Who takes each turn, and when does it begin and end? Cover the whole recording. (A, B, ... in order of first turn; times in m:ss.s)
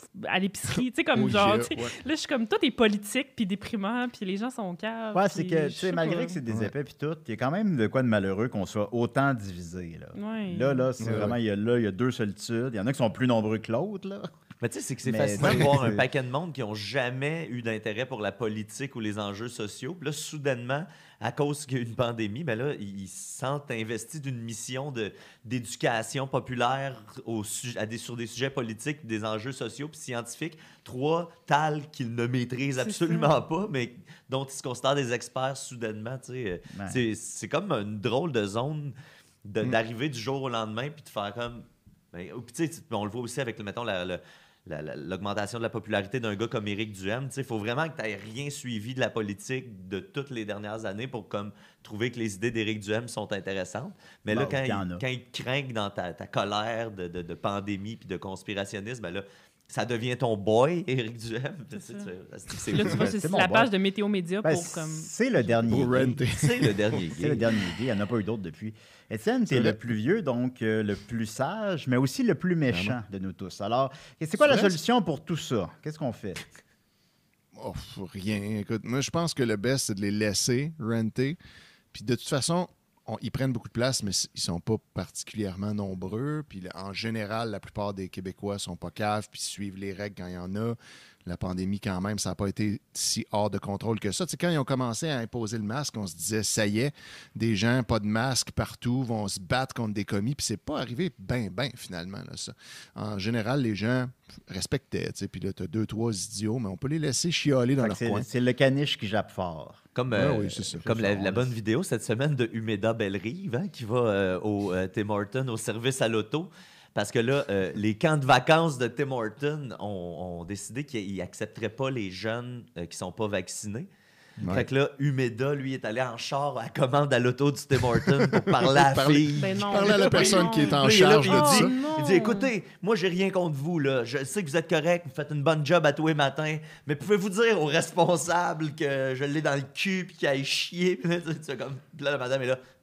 0:00.1-0:06.4 A
0:01.1-0:01.9 B
0:05.1-0:14.3 C
0:10.1-0:10.9 A
0:11.0-0:11.4 B
0:14.6-0:38.9 D
0:15.0-0:16.0 C
0:15.4-0:15.7 B
0:32.8-0:33.3 A
0:36.7-0:37.0 C
0:39.4-1:03.1 D
0:54.3-0:55.0 C
1:01.8-1:02.1 A
1:02.7-1:05.1 A
1:02.9-1:03.7 C
1:04.4-1:06.2 C
1:05.7-1:06.8 B
1:06.3-1:07.4 D
1:07.1-1:16.4 C
1:09.5-1:09.8 B
1:12.7-1:13.0 B
1:14.4-1:14.7 B
1:17.5-1:21.4 B
1:21.9-1:48.2 B
1:47.8-1:49.8 C
1:49.9-2:03.9 D
1:50.1-1:51.0 B
1:50.5-1:51.5 C
2:04.4-2:04.7 B
2:04.5-2:22.6 D
2:08.2-2:11.7 B
2:09.4-2:12.5 A